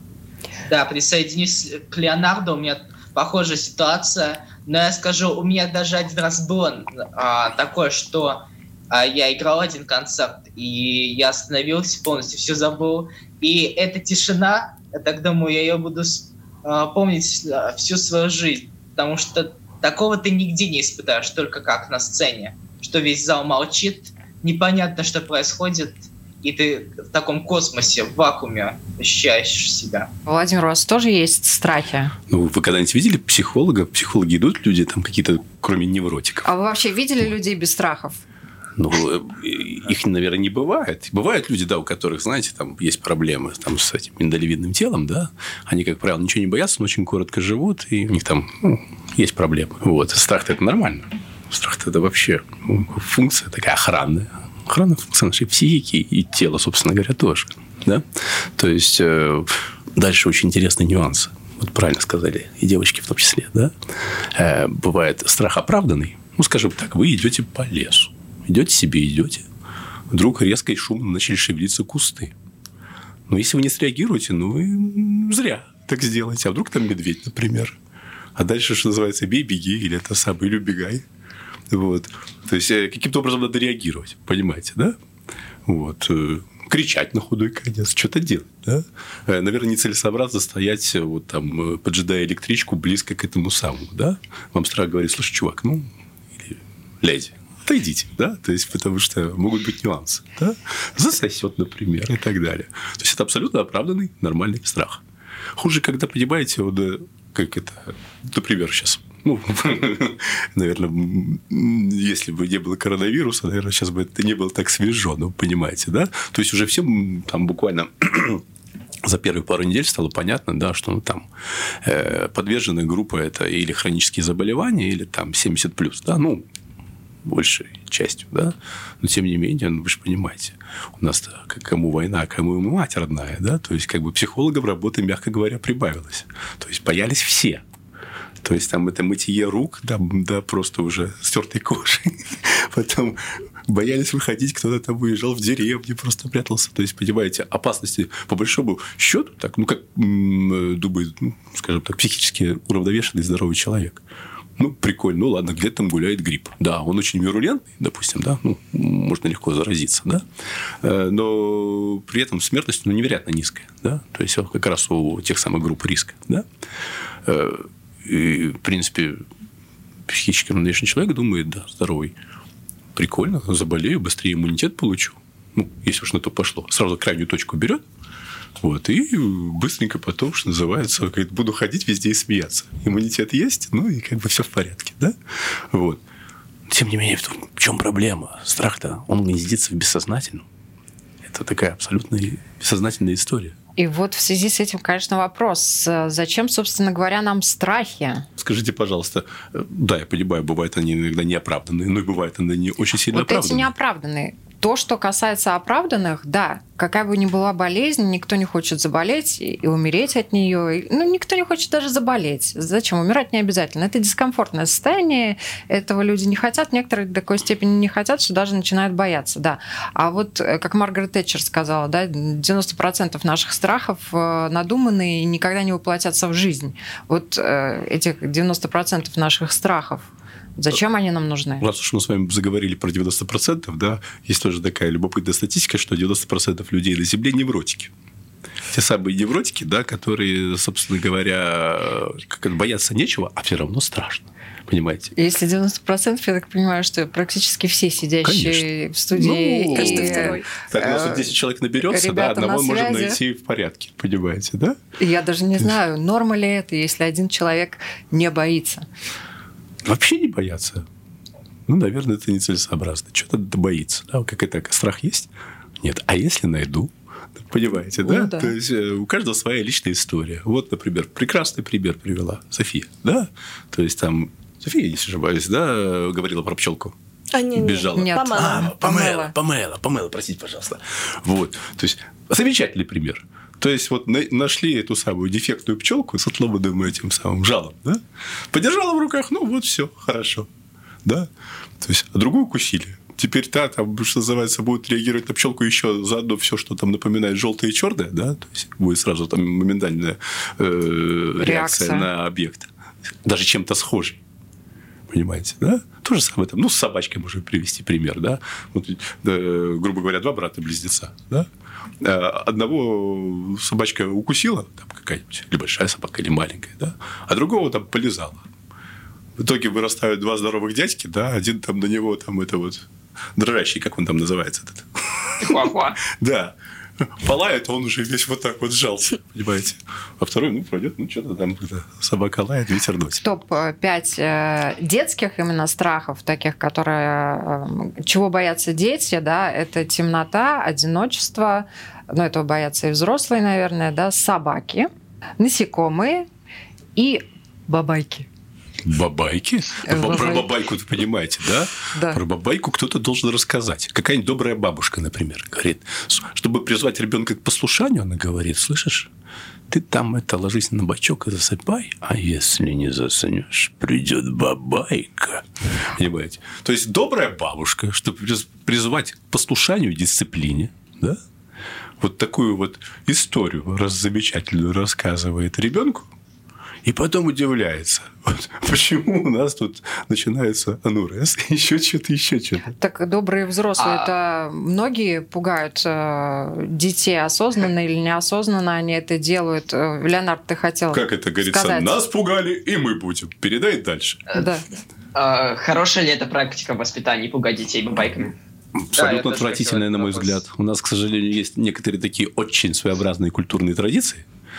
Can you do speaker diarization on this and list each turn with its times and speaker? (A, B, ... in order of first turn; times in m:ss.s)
0:00.7-0:30.1 A
0:30.3-0:32.1 B
0:32.3-0:36.5 C
0:36.4-0:38.2 B
0:38.8-1:03.7 C
1:04.3-1:09.4 C
1:10.1-1:12.4 C
1:13.3-1:17.8 C
1:18.4-1:21.0 C
1:21.7-1:25.0 C
1:25.6-1:45.0 C
1:45.6-1:58.4 C
1:59.0-2:01.3 C
2:01.8-2:06.5 C
2:07.2-2:17.6 C
2:18.4-2:34.0 C
2:34.6-2:40.2 C
2:40.8-2:46.5 C
2:47.2-2:49.2 C
2:50.1-2:52.2 C
2:53.0-2:57.8 C
2:58.6-3:05.2 C
3:05.7-3:06.0 C
3:06.7-3:10.5 C
3:11.2-3:13.6 C
3:13.8-3:18.3 B
3:18.4-3:23.7 C
3:23.1-3:51.7 B
3:51.6-3:57.9 C
3:58.7-4:05.1 C
4:05.2-4:11.3 B
4:08.2-4:14.8 C
4:09.8-4:10.4 D
4:11.8-4:13.2 B
4:15.0-4:18.9 B
4:19.8-4:20.8 C
4:21.7-4:37.0 C
4:28.0-4:28.5 B
4:37.3-4:38.7 D
4:37.6-4:50.5 C
4:37.9-4:39.3 B
4:51.0-4:51.3 C
4:51.8-5:02.7 C
5:01.4-5:02.1 B
5:03.2-5:04.2 C
5:05.1-5:11.5 C
5:12.0-5:18.4 C
5:19.4-5:33.2 C
5:25.4-5:26.0 E
5:33.2-5:46.3 B
5:47.0-5:48.3 B
5:48.8-5:59.1 C
5:49.8-5:50.5 B
5:51.9-5:52.2 B
5:59.7-6:11.2 C
6:12.0-6:16.1 C
6:16.8-6:22.7 C
6:22.8-6:32.0 B
6:23.8-6:24.1 E
6:30.9-6:34.3 C
6:34.3-6:34.6 B
6:35.2-6:38.4 E
6:38.8-6:44.2 C
6:39.0-6:40.4 A